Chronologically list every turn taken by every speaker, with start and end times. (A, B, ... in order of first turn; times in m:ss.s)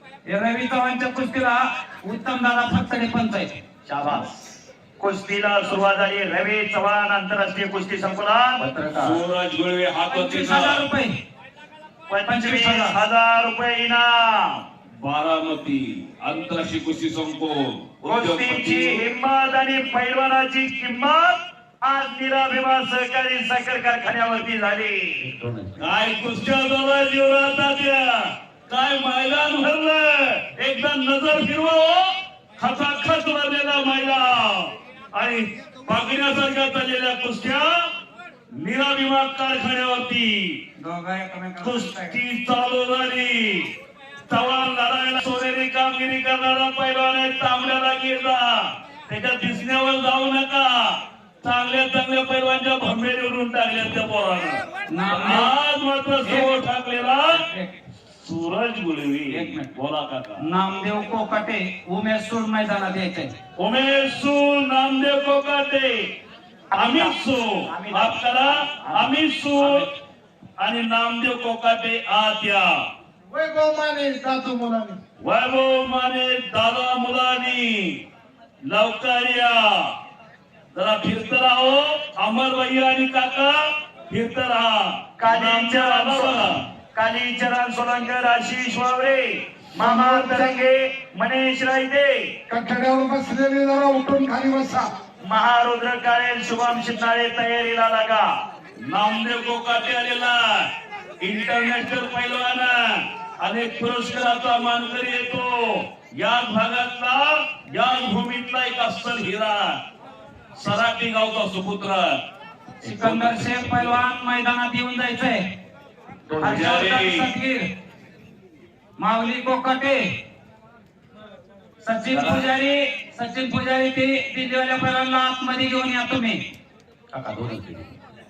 0:00.2-0:03.6 A
0:03.8-0:08.6 B
0:08.6-0:09.2 C
0:08.9-0:10.8 D
0:10.1-0:11.1 A
0:12.1-0:14.6 B
0:12.2-0:13.0 A
0:15.0-0:19.0 D
0:18.0-0:25.3 B
0:25.2-0:25.9 C
0:25.8-0:37.9 D
0:38.5-0:40.6 D
0:40.8-0:42.2 A
0:41.6-0:43.7 D
0:44.3-0:57.4 D
0:54.9-0:55.5 A
0:56.2-0:56.5 A
0:57.3-0:57.7 A
0:58.2-1:00.5 D
0:59.3-0:59.7 A
1:00.4-1:03.3 A
1:03.6-1:06.1 D
1:06.7-1:09.9 B
1:06.7-1:09.9 D
1:10.6-1:12.9 D
1:15.2-1:18.0 D
1:18.7-1:19.9 D
1:20.7-1:26.6 D
1:25.2-1:32.3 B
1:29.8-1:30.6 E
1:32.5-1:34.9 E
1:35.2-1:38.2 B
1:38.8-1:49.8 D
1:50.5-1:52.2 D
1:52.8-1:55.4 A
1:52.8-1:53.8 C
1:53.3-1:54.0 D
1:56.3-1:56.7 C
1:56.4-1:57.3 D
1:56.4-1:57.7 A
1:59.0-2:00.1 A
2:01.8-2:06.4 A
2:02.1-2:02.5 D
2:07.1-2:07.9 C